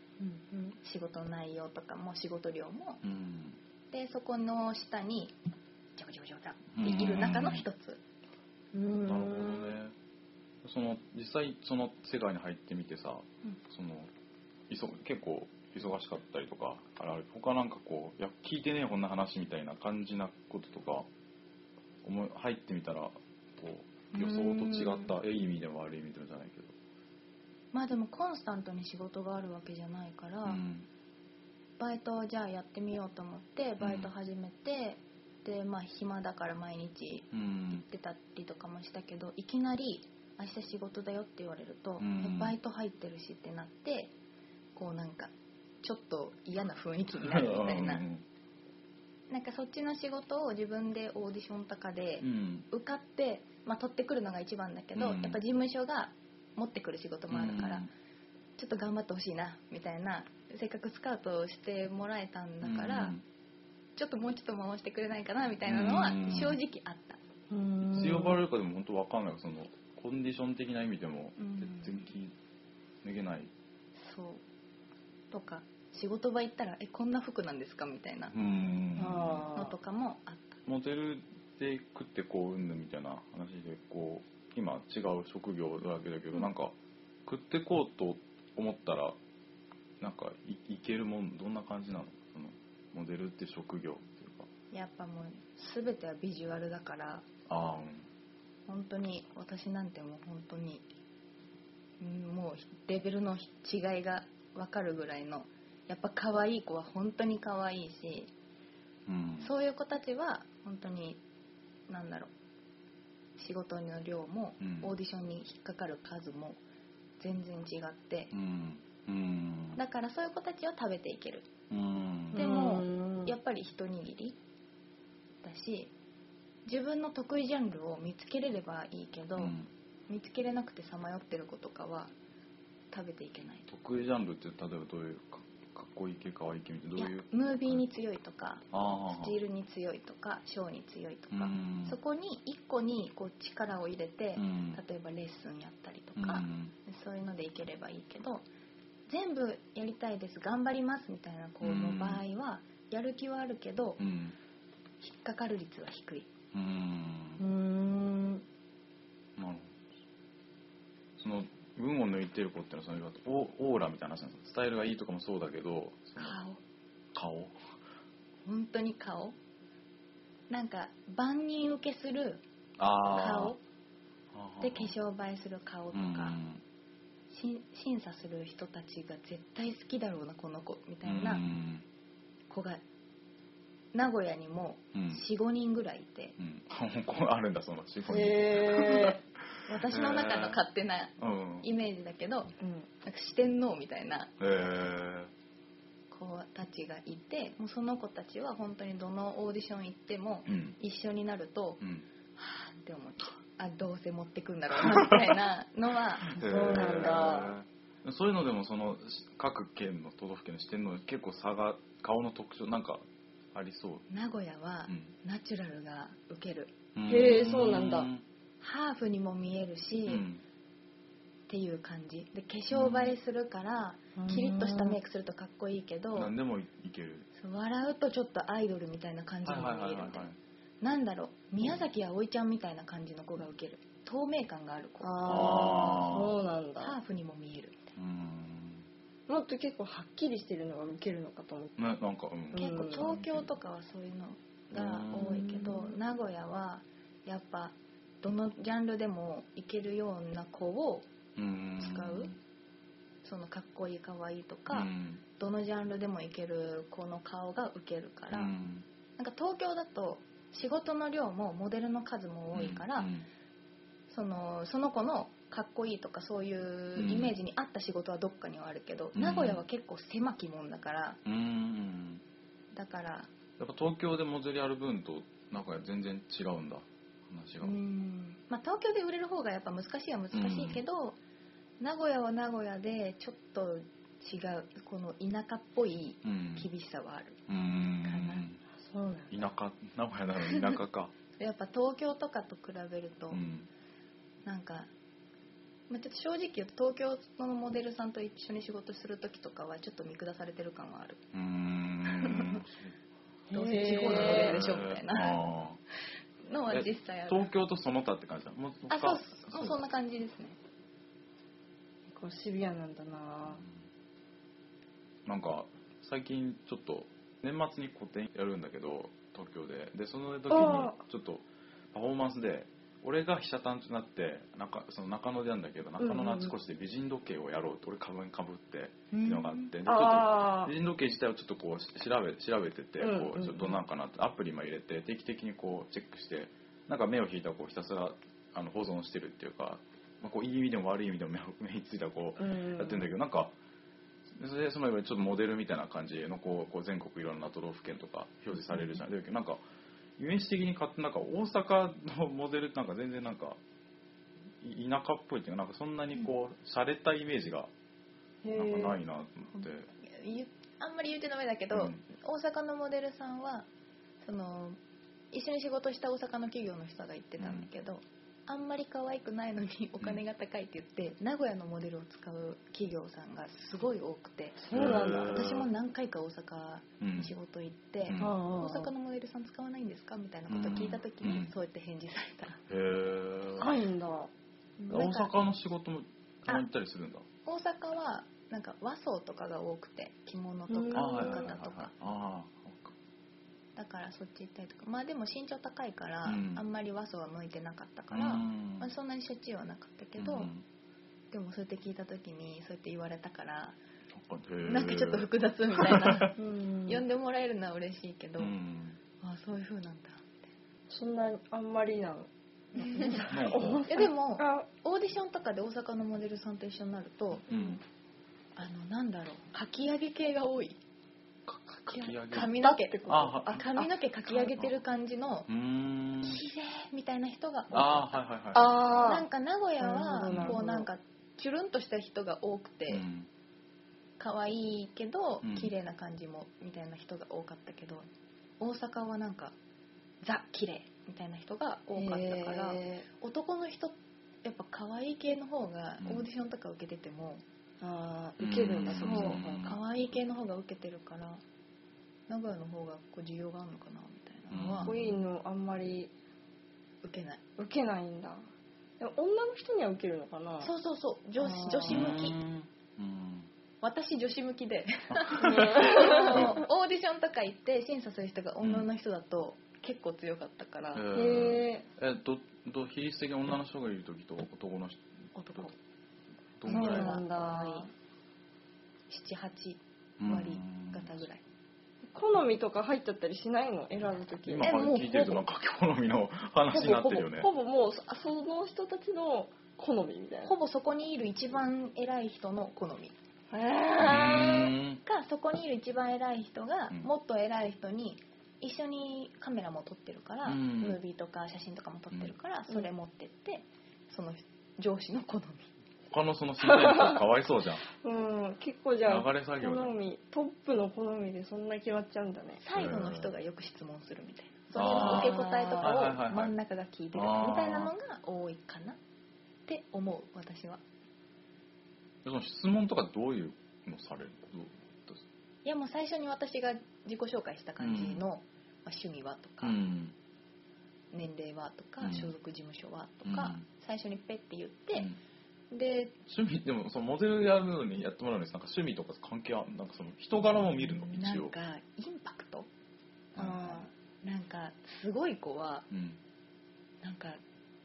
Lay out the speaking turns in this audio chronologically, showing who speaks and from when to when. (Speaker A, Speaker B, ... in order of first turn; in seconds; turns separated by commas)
Speaker A: 0.2-0.7, Speaker B: 0.8-3.0, Speaker C: 3.0-3.6, Speaker B: 3.9-5.3, Speaker B: 6.0-8.0, Speaker C: 6.7-7.6, Speaker A: 8.7-9.8, Speaker C: 9.0-9.9, Speaker C: 10.6-14.1, Speaker C: 14.7-21.1, Speaker C: 22.0-26.7, Speaker B: 24.1-25.1, Speaker B: 27.7-30.6, Speaker C: 30.4-30.9, Speaker B: 31.8-44.1, Speaker C: 33.8-34.1, Speaker C: 37.3-37.8, Speaker C: 42.0-42.5, Speaker B: 44.7-48.0, Speaker C: 47.2-48.2, Speaker B: 49.3-57.9, Speaker C: 52.2-52.7, Speaker C: 54.9-55.4, Speaker C: 57.3-57.9, Speaker B: 58.6-63.1, Speaker C: 62.6-63.2, Speaker B: 64.0-67.2, Speaker C: 65.7-66.6, Speaker A: 67.5-68.4, Speaker C: 67.9-72.3, Speaker B: 71.4-72.0, Speaker C: 73.0-73.5, Speaker B: 74.0-74.4, Speaker B: 75.3-78.3, Speaker C: 78.3-79.5, Speaker A: 79.0-79.8, Speaker B: 79.5-80.6, Speaker C: 80.7-86.7, Speaker C: 87.2-89.2, Speaker C: 90.0-94.5, Speaker B: 94.7-97.3, Speaker C: 97.5-98.1, Speaker B: 98.7-100.8, Speaker B: 102.0-108.3, Speaker C: 109.1-109.5, Speaker B: 109.4-111.2, Speaker B: 111.9-112.3, Speaker B: 113.4-116.6, Speaker C: 114.6-114.9, Speaker B: 117.2-118.3, Speaker C: 118.3-119.8, Speaker B: 119.8-121.5, Speaker C: 121.7-122.4, Speaker A: 122.3-123.3, Speaker B: 122.3-124.4, Speaker B: 125.4-125.9, Speaker B: 126.6-129.5, Speaker C: 129.4-129.7, Speaker B: 130.1-132.1, Speaker B: 132.9-133.6, Speaker C: 133.7-137.8, Speaker B: 137.0-148.4, Speaker C: 138.7-139.4, Speaker C: 141.3-142.0, Speaker C: 144.3-144.8, Speaker C: 146.2-146.7, Speaker B: 149.1-154.0, Speaker C: 151.6-152.2, Speaker C: 154.0-154.3, Speaker B: 155.0-156.3, Speaker C: 156.5-157.4, Speaker A: 157.4-158.4, Speaker C: 159.4-159.8, Speaker C: 161.2-166.3, Speaker B: 166.2-166.6, Speaker C: 167.1-167.8, Speaker B: 168.4-169.3, Speaker B: 170.5-172.4, Speaker C: 172.8-173.5, Speaker B: 173.1-173.6, Speaker C: 174.3-174.9, Speaker B: 174.6-176.4, Speaker C: 175.9-176.6, Speaker B: 177.3-181.4, Speaker C: 181.0-181.8, Speaker B: 182.5-182.8, Speaker B: 183.9-186.3, Speaker C: 184.9-185.2, Speaker C: 186.4-189.2, Speaker A: 188.1-189.2, Speaker B: 189.7-194.3, Speaker C: 189.8-190.6, Speaker C: 191.2-191.7, Speaker A: 192.6-192.9, Speaker C: 194.4-195.3, Speaker B: 196.1-201.8, Speaker C: 200.5-200.8, Speaker B: 202.4-207.2, Speaker C: 204.8-205.3, Speaker C: 206.3-214.1, Speaker A: 206.4-207.5, Speaker B: 214.1-216.7, Speaker C: 216.9-218.2, Speaker A: 217.1-218.1, Speaker B: 218.6-220.2, Speaker C: 220.1-220.4, Speaker B: 221.5-226.3, Speaker C: 222.7-223.1, Speaker A: 224.2-225.0, Speaker C: 226.1-227.3, Speaker B: 227.3-230.3, Speaker C: 229.4-230.3, Speaker B: 230.8-236.1, Speaker A: 235.0-236.9, Speaker C: 235.3-236.3, Speaker B: 236.8-237.9, Speaker C: 237.9-238.8, Speaker A: 239.3-241.8, Speaker C: 241.8-243.5, Speaker A: 242.5-243.1, Speaker B: 242.5-251.1, Speaker C: 244.7-245.4, Speaker A: 245.1-245.9, Speaker C: 251.4-252.4, Speaker B: 251.8-252.3, Speaker B: 253.2-258.5, Speaker C: 254.7-255.2, Speaker C: 258.3-258.8, Speaker B: 259.2-263.1, Speaker C: 262.5-263.3, Speaker B: 264.1-271.2, Speaker C: 266.9-267.3, Speaker C: 269.1-269.6, Speaker C: 271.2-272.2, Speaker B: 272.7-273.3, Speaker C: 273.6-277.8, Speaker B: 277.6-281.2, Speaker C: 280.3-280.8, Speaker B: 281.8-287.4, Speaker C: 286.2-286.7, Speaker C: 287.5-288.6, Speaker B: 288.0-288.4, Speaker A: 288.8-289.3, Speaker C: 289.3-291.1, Speaker B: 290.5-290.8, Speaker B: 291.4-293.4, Speaker C: 293.3-293.7, Speaker B: 294.4-294.9, Speaker B: 295.9-301.2, Speaker C: 301.3-302.9, Speaker B: 302.1-302.6, Speaker A: 303.5-304.6, Speaker B: 303.5-305.4, Speaker C: 304.0-305.8, Speaker B: 306.5-307.5, Speaker C: 306.7-309.8, Speaker B: 308.9-310.6, Speaker A: 312.1-313.6, Speaker C: 315.2-343.5, Speaker A: 320.5-321.0, Speaker A: 326.0-326.5, Speaker B: 329.1-329.7, Speaker A: 329.9-330.7, Speaker A: 333.0-333.8, Speaker A: 342.4-343.1, Speaker C: 344.3-349.6, Speaker C: 350.2-353.6, Speaker C: 354.6-357.7, Speaker A: 358.4-359.0, Speaker C: 358.5-359.9, Speaker B: 359.6-363.6, Speaker C: 361.7-362.0, Speaker B: 364.2-364.8, Speaker B: 365.3-382.6, Speaker C: 367.4-367.7, Speaker A: 374.6-375.5, Speaker C: 374.7-375.7, Speaker C: 377.0-377.3, Speaker C: 378.0-378.3, Speaker A: 378.2-378.9, Speaker C: 380.5-381.5, Speaker C: 382.7-383.7, Speaker A: 383.6-384.3, Speaker B: 384.8-385.3, Speaker C: 384.9-387.2, Speaker B: 387.4-391.9, Speaker A: 390.7-391.5, Speaker C: 390.9-392.9, Speaker B: 393.8-400.5, Speaker C: 396.2-396.6, Speaker C: 398.1-398.9, Speaker C: 400.2-400.6, Speaker B: 401.3-403.8, Speaker C: 404.1-406.2, Speaker B: 404.7-408.5, Speaker A: 406.4-407.0, Speaker C: 408.4-409.0, Speaker B: 409.2-410.4, Speaker A: 410.9-414.7, Speaker B: 412.8-413.3, Speaker C: 413.3-413.8, Speaker B: 413.9-417.6, Speaker C: 417.4-417.8, Speaker B: 418.6-420.8, Speaker C: 421.5-423.6, Speaker B: 421.9-425.5, Speaker A: 422.4-423.9, Speaker C: 424.5-424.7, Speaker C: 425.5-426.4, Speaker B: 426.2-433.0, Speaker C: 427.7-428.8, Speaker A: 428.5-429.3, Speaker A: 429.8-430.9, Speaker C: 430.2-430.6, Speaker C: 432.9-433.3, Speaker B: 434.2-438.1, Speaker C: 435.4-435.7, Speaker B: 438.6-439.5, Speaker B: 440.2-447.4, Speaker A: 441.9-443.1, Speaker C: 446.0-446.3, Speaker A: 447.8-449.7, Speaker C: 448.4-449.8, Speaker B: 448.8-451.4, Speaker B: 452.3-454.9, Speaker C: 454.5-455.2, Speaker A: 454.8-456.1, Speaker B: 457.0-457.4, Speaker A: 457.6-458.5, Speaker A: 459.0-460.7, Speaker B: 460.6-462.4, Speaker A: 461.4-462.2, Speaker C: 461.9-463.5, Speaker B: 463.8-471.0, Speaker C: 465.1-466.6, Speaker A: 465.4-466.6, Speaker C: 468.6-468.9, Speaker C: 470.9-475.0, Speaker A: 471.1-471.9, Speaker B: 475.3-475.7, Speaker C: 476.6-477.2, Speaker B: 476.6-477.9, Speaker A: 476.7-477.9, Speaker B: 479.1-481.4, Speaker C: 480.2-481.2, Speaker A: 482.0-484.7, Speaker C: 484.4-487.5, Speaker B: 484.6-485.4, Speaker A: 486.7-490.6, Speaker B: 490.4-493.1, Speaker A: 493.5-494.7, Speaker C: 494.0-495.0, Speaker B: 495.0-505.7, Speaker C: 500.4-501.0, Speaker C: 506.1-507.9, Speaker A: 506.6-507.2, Speaker A: 508.0-512.6, Speaker C: 509.1-509.9, Speaker B: 512.6-519.0, Speaker C: 512.7-513.3, Speaker C: 514.7-516.5, Speaker A: 514.9-516.0, Speaker C: 517.1-517.9, Speaker B: 519.7-520.8, Speaker C: 522.2-525.2, Speaker B: 525.6-529.8, Speaker C: 527.8-528.2, Speaker C: 529.6-530.1, Speaker B: 531.1-535.1, Speaker C: 532.0-532.3, Speaker C: 533.2-533.6, Speaker B: 535.7-536.1, Speaker C: 536.2-541.5, Speaker B: 541.1-542.7, Speaker C: 543.4-543.8, Speaker B: 543.4-545.9, Speaker A: 543.4-543.8, Speaker C: 545.9-546.2, Speaker B: 547.0-547.4